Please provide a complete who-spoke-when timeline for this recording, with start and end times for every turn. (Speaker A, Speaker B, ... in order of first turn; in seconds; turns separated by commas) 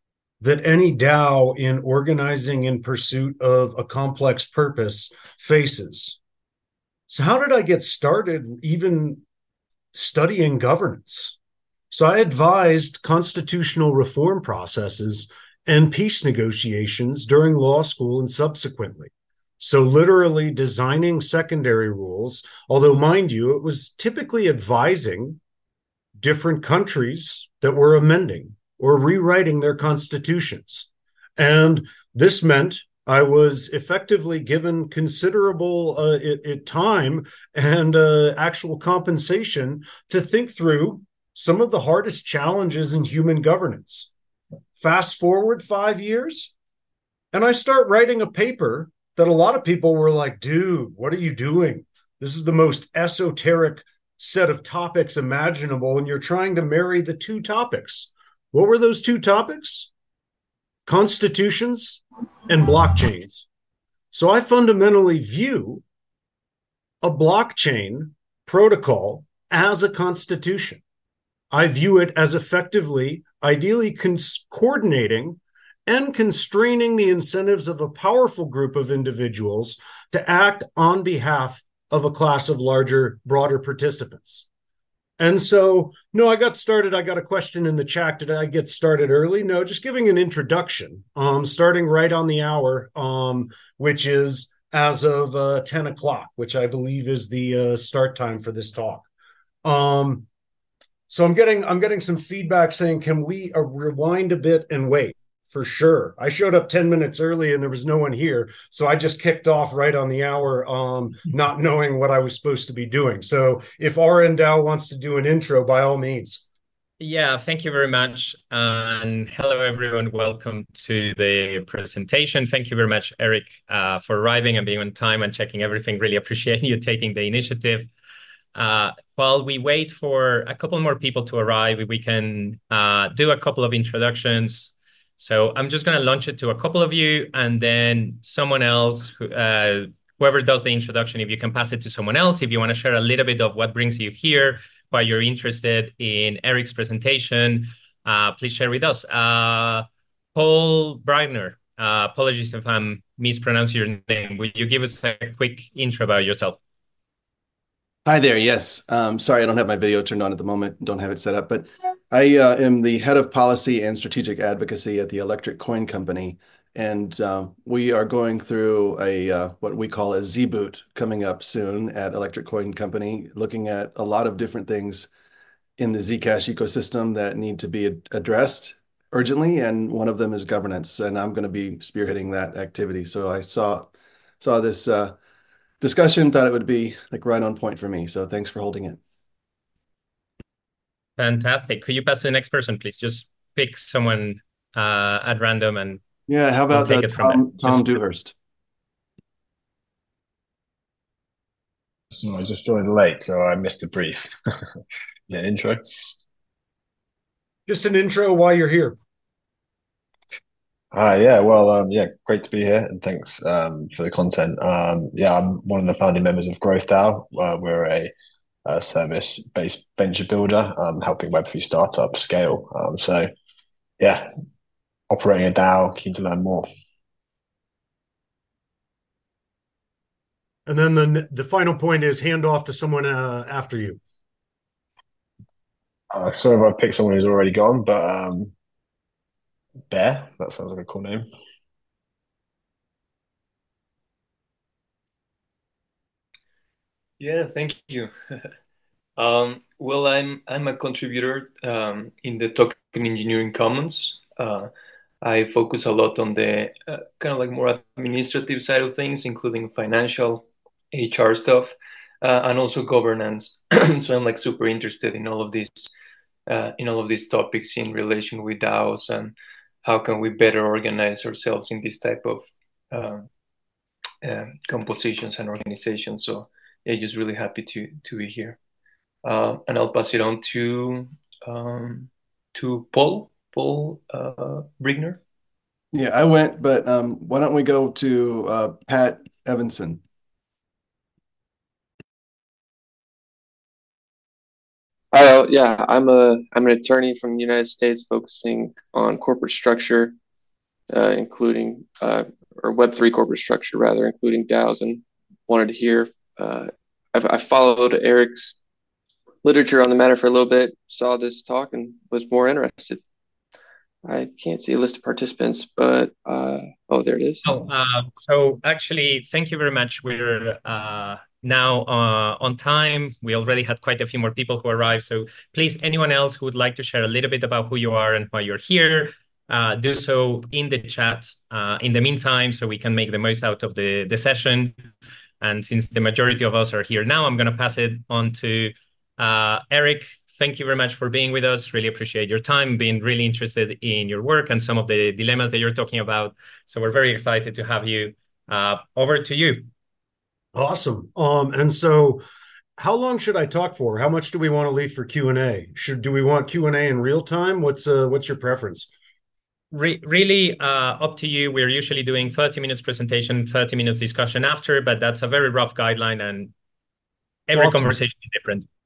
Speaker A: 0.4-6.2, Speaker A: 7.1-9.2, Speaker A: 9.9-11.4, Speaker A: 11.9-25.4, Speaker A: 26.2-44.1, Speaker A: 44.8-46.5, Speaker A: 47.3-59.9, Speaker A: 60.9-63.5, Speaker A: 64.1-65.8, Speaker A: 67.0-70.8, Speaker A: 71.5-84.5, Speaker A: 85.2-99.0, Speaker A: 99.6-100.3, Speaker A: 101.1-116.4, Speaker B: 117.0-127.9, Speaker B: 128.6-156.6, Speaker C: 158.1-175.1, Speaker C: 175.8-183.9, Speaker C: 184.4-185.2, Speaker C: 185.8-189.0, Speaker B: 191.2-196.0, Speaker C: 196.3-198.3, Speaker B: 196.7-198.0, Speaker D: 202.1-204.3, Speaker D: 205.3-205.8, Speaker A: 207.7-209.0, Speaker D: 210.9-218.1, Speaker D: 218.6-223.3, Speaker D: 224.0-224.3, Speaker D: 225.1-226.7, Speaker A: 230.7-234.0, Speaker D: 236.1-238.5, Speaker D: 239.9-241.3, Speaker E: 247.2-248.5, Speaker E: 249.2-254.7, Speaker E: 255.2-265.9, Speaker E: 266.5-273.3, Speaker E: 274.2-278.6, Speaker E: 279.2-285.2, Speaker C: 285.9-290.0, Speaker F: 295.1-300.1, Speaker F: 300.9-308.6, Speaker F: 309.4-313.0, Speaker F: 314.1-317.5, Speaker B: 317.4-334.8, Speaker B: 335.4-349.7, Speaker A: 350.5-352.2, Speaker A: 352.8-358.9, Speaker B: 359.7-366.5, Speaker B: 367.5-368.7, Speaker A: 367.5-367.9